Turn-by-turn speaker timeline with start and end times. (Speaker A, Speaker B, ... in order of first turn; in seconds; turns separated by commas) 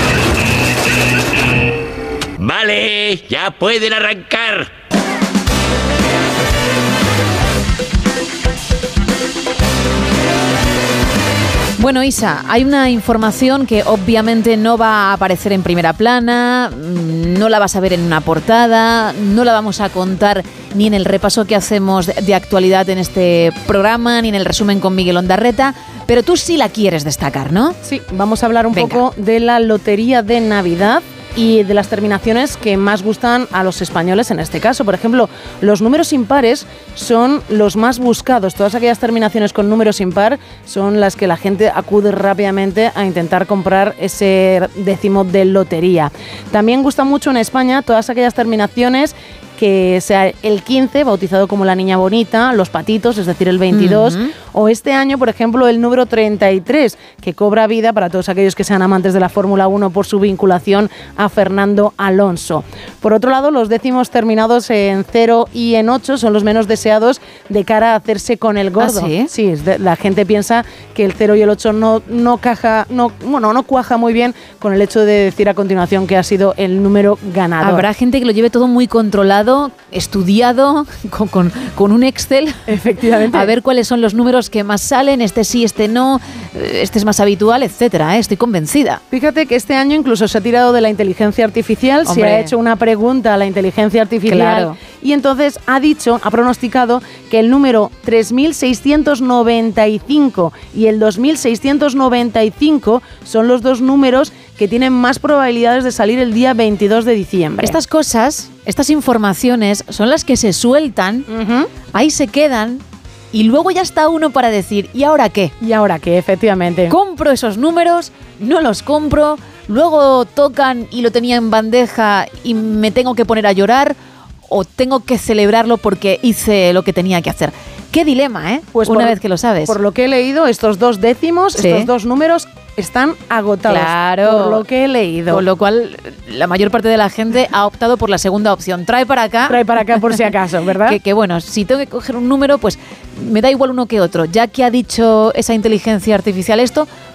Speaker A: 2.4-4.7, Speaker B: 11.8-27.8, Speaker C: 27.9-77.9, Speaker B: 28.7-29.0, Speaker B: 53.7-54.3, Speaker B: 68.8-69.3, Speaker B: 77.6-82.6, Speaker C: 82.7-83.5, Speaker B: 83.3-89.0, Speaker C: 89.1-107.8, Speaker B: 92.1-92.5, Speaker B: 94.3-94.8, Speaker B: 107.6-111.3, Speaker C: 111.3-111.7, Speaker B: 111.9-112.8, Speaker B: 113.3-115.5, Speaker C: 115.6-116.9, Speaker B: 116.9-124.0, Speaker B: 124.5-129.7, Speaker C: 128.8-135.4, Speaker B: 131.6-131.9, Speaker B: 133.7-134.6, Speaker B: 135.3-139.6, Speaker C: 139.5-141.0, Speaker B: 140.9-146.9